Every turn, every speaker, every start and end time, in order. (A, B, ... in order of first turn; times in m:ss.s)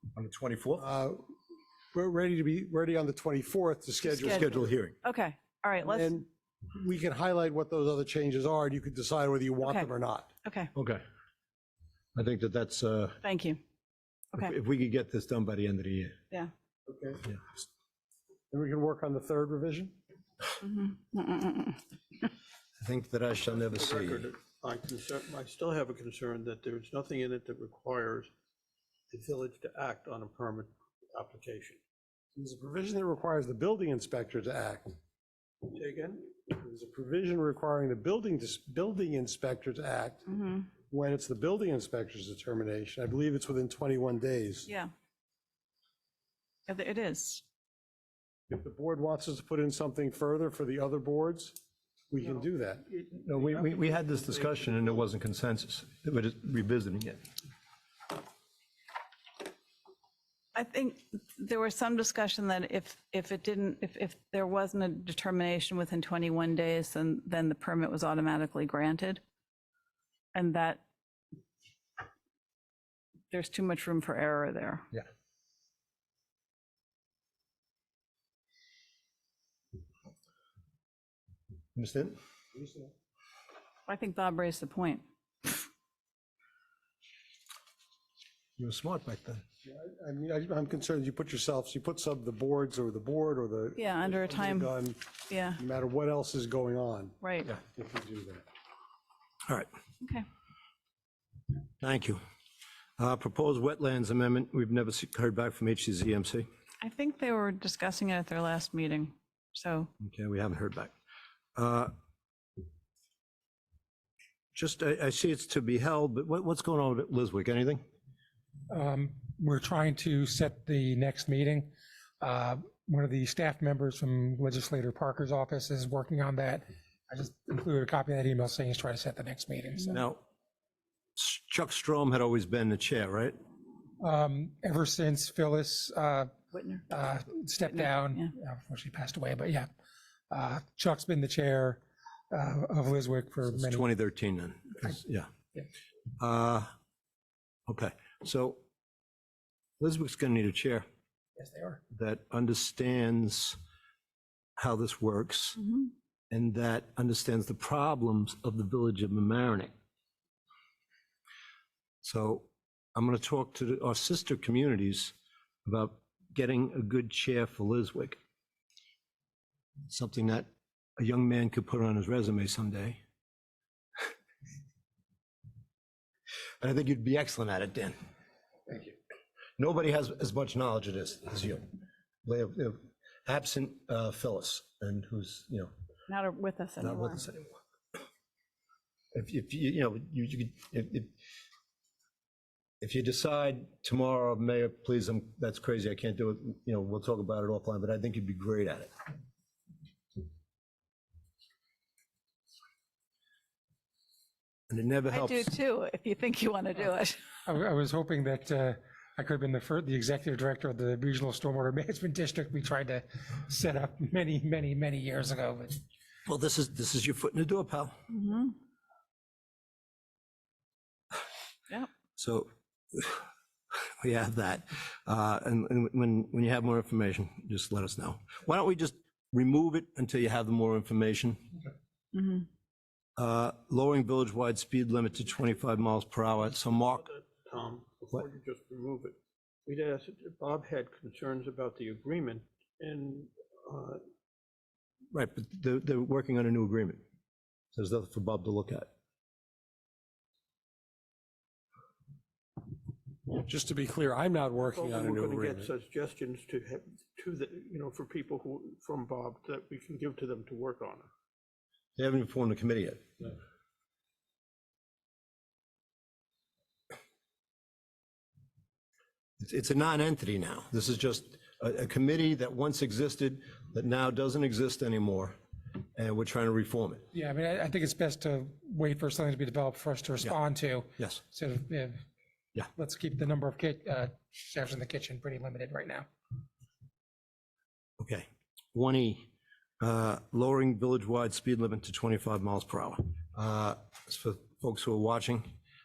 0:00.2-0:00.9 A
0:00.8-0:01.2 B
0:01.9-0:04.7 B
0:04.2-0:04.4 C
0:04.2-0:05.0 A
0:05.0-0:06.2 C
0:05.8-0:10.3 B
0:09.6-0:09.9 C
0:10.4-0:10.7 C
0:10.7-0:11.0 A
0:12.1-0:13.2 A
0:13.2-0:13.6 C
0:14.4-0:16.1 A
0:16.9-0:17.3 B
0:18.5-0:20.0 B
0:20.6-0:22.2 C
0:22.8-0:24.3 A
0:23.5-0:28.3 D
0:29.1-0:31.8 D
0:32.3-0:34.9 B
0:35.7-0:36.3 D
0:36.5-0:44.7 B
0:40.3-0:40.7 C
0:46.7-0:47.4 C
0:48.5-0:51.6 B
0:52.1-0:52.9 B
0:52.9-0:57.2 A
1:00.6-1:09.2 C
1:10.3-1:10.8 C
1:13.3-1:14.8 C
1:21.7-1:22.2 A
1:22.5-1:22.9 B
1:23.8-1:25.5 C
1:28.6-1:29.4 A
1:29.6-1:38.4 B
1:33.8-1:34.7 C
1:35.3-1:35.6 C
1:37.2-1:37.5 C
1:40.0-1:40.3 C
1:41.8-1:42.2 A
1:43.0-1:46.5 A
1:46.8-1:49.9 C
1:50.0-1:50.9 A
1:51.6-1:51.9 A
1:54.5-1:57.8 A
1:58.7-2:10.0 E
2:09.9-2:10.2 A
2:11.2-2:13.4 A
2:14.0-2:16.3 E
2:16.5-2:16.9 C
2:16.9-2:19.7 E
2:17.6-2:18.3 C
2:20.3-2:23.9 E
2:23.5-2:25.3 A
2:26.2-2:26.7 A
2:27.7-2:28.6 A
2:29.8-2:30.8 A
2:31.4-2:31.8 E
2:31.9-2:33.6 A
2:34.6-2:35.6 A
2:35.6-2:35.9 C
2:36.3-2:39.7 A
2:42.0-2:48.2 A
2:49.9-2:50.5 A
2:51.0-2:53.0 A
2:56.6-2:57.9 A
2:59.6-3:01.7 A
3:02.2-3:05.7 A
3:06.1-3:07.2 C
3:06.8-3:07.5 A
3:09.1-3:11.1 A
3:12.8-3:18.9 A
3:24.7-3:25.5 A
3:25.1-3:27.3 C
3:27.4-3:35.8 E
3:36.2-3:38.0 A
3:38.1-3:38.5 C
3:42.2-3:43.2 A
3:44.0-3:51.4 A
3:52.1-3:52.4 C
3:53.2-3:57.1 A
3:56.5-4:04.0 D
4:05.1-4:07.0 A
4:07.7-4:08.9 A
4:13.3-4:15.7 B
4:14.6-4:21.1 D
4:22.0-4:23.0 A
4:29.4-4:35.4 A
4:36.0-4:37.0 A
4:37.1-4:42.0 E
4:42.8-4:46.1 E
4:48.0-4:49.3 A
4:49.8-4:55.5 A